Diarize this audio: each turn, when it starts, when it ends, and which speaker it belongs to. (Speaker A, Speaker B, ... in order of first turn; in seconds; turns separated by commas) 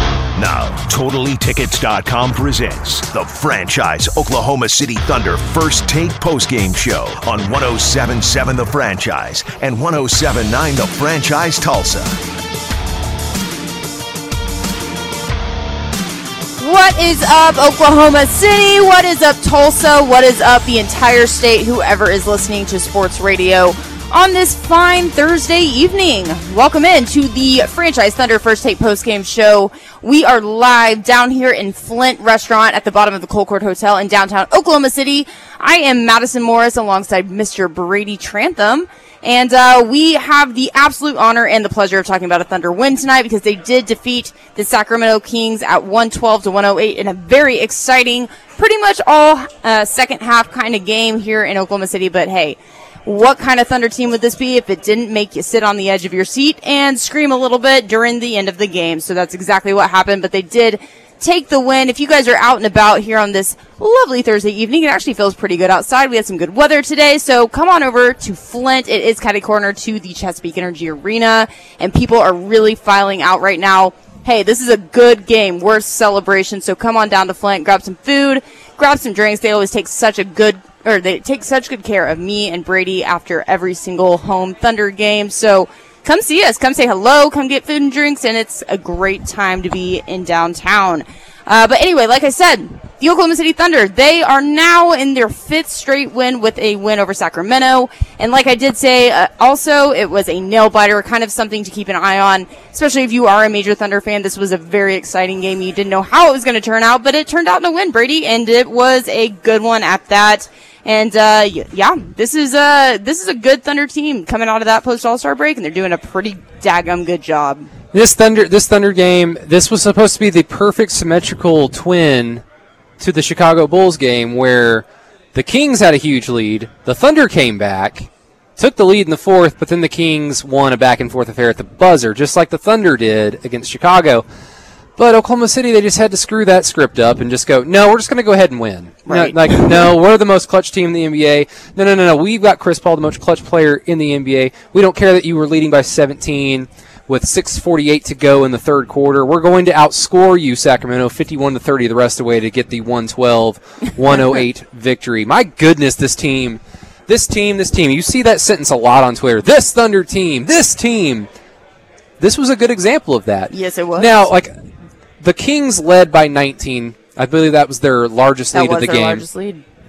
Speaker A: 0.3-12.2, Speaker B: 16.6-117.7, Speaker C: 117.9-122.4, Speaker C: 123.0-134.2, Speaker C: 135.0-161.3, Speaker B: 139.1-139.9, Speaker C: 162.2-164.5, Speaker B: 163.5-164.3, Speaker C: 165.2-169.2, Speaker B: 168.5-169.6